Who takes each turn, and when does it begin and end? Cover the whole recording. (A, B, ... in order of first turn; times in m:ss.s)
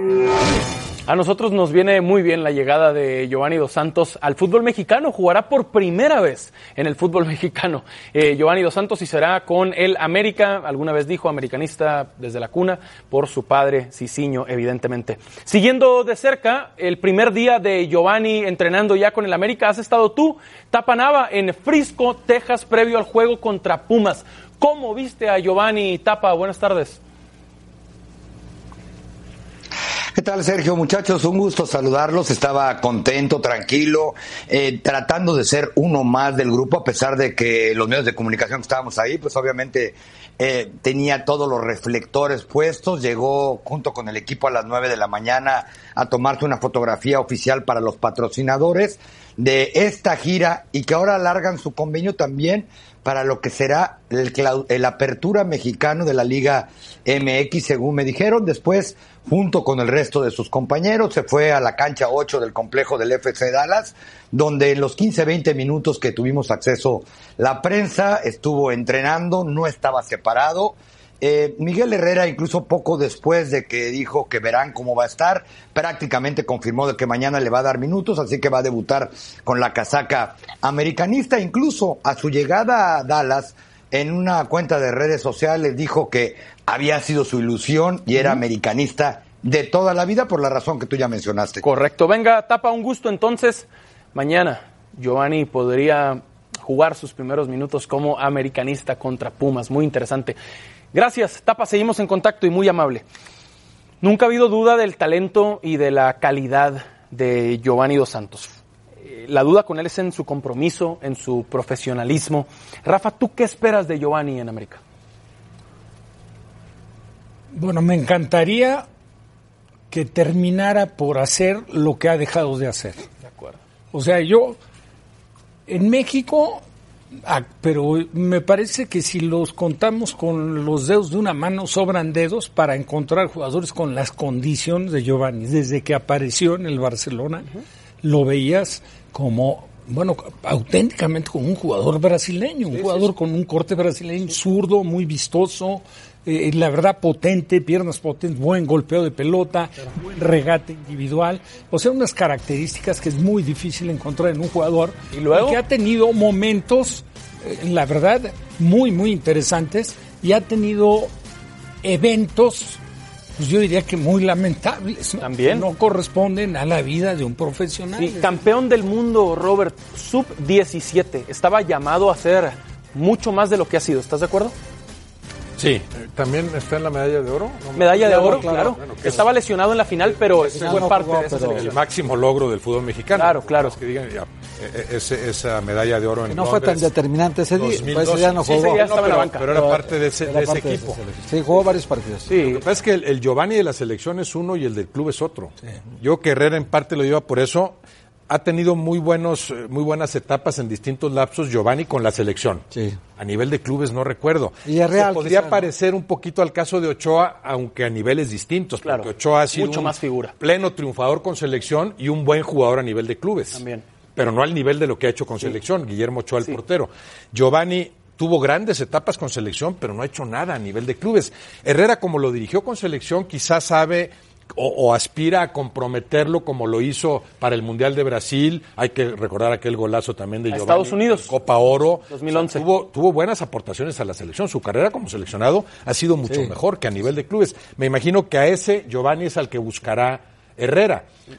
0:01.0-0:27.0 A
0:30.2-1:31.6 B
1:31.6-1:40.4 A
1:40.9-1:43.0 A
1:44.0-1:54.8 A
1:57.5-1:58.8 C
1:59.9-2:03.1 C
2:03.2-2:03.6 A
2:03.9-2:04.6 C
2:05.7-2:06.6 C
2:07.2-2:17.5 C
2:18.0-2:41.1 C
2:35.1-2:35.6 A
2:41.8-2:42.8 C
2:43.4-2:48.2 C
2:45.2-2:45.6 A
2:48.0-2:54.5 A
2:55.6-2:59.3 D
2:57.7-3:01.8 A
2:58.0-2:58.9 E
3:00.4-3:01.6 E
3:00.5-3:06.9 D
3:03.1-3:03.8 A
3:06.3-3:08.9 E
3:07.5-3:11.0 D
3:08.4-3:09.5 A
3:09.5-3:12.3 E
3:12.3-3:12.6 A
3:12.3-3:17.8 D
3:18.3-3:22.6 D
3:22.7-3:23.0 E
3:23.2-3:33.6 D
3:24.6-3:25.7 E
3:28.8-3:30.3 A
3:33.5-3:33.8 A
3:34.2-4:01.0 D
3:50.5-3:51.3 A
3:52.1-3:52.6 A
3:56.2-3:56.5 E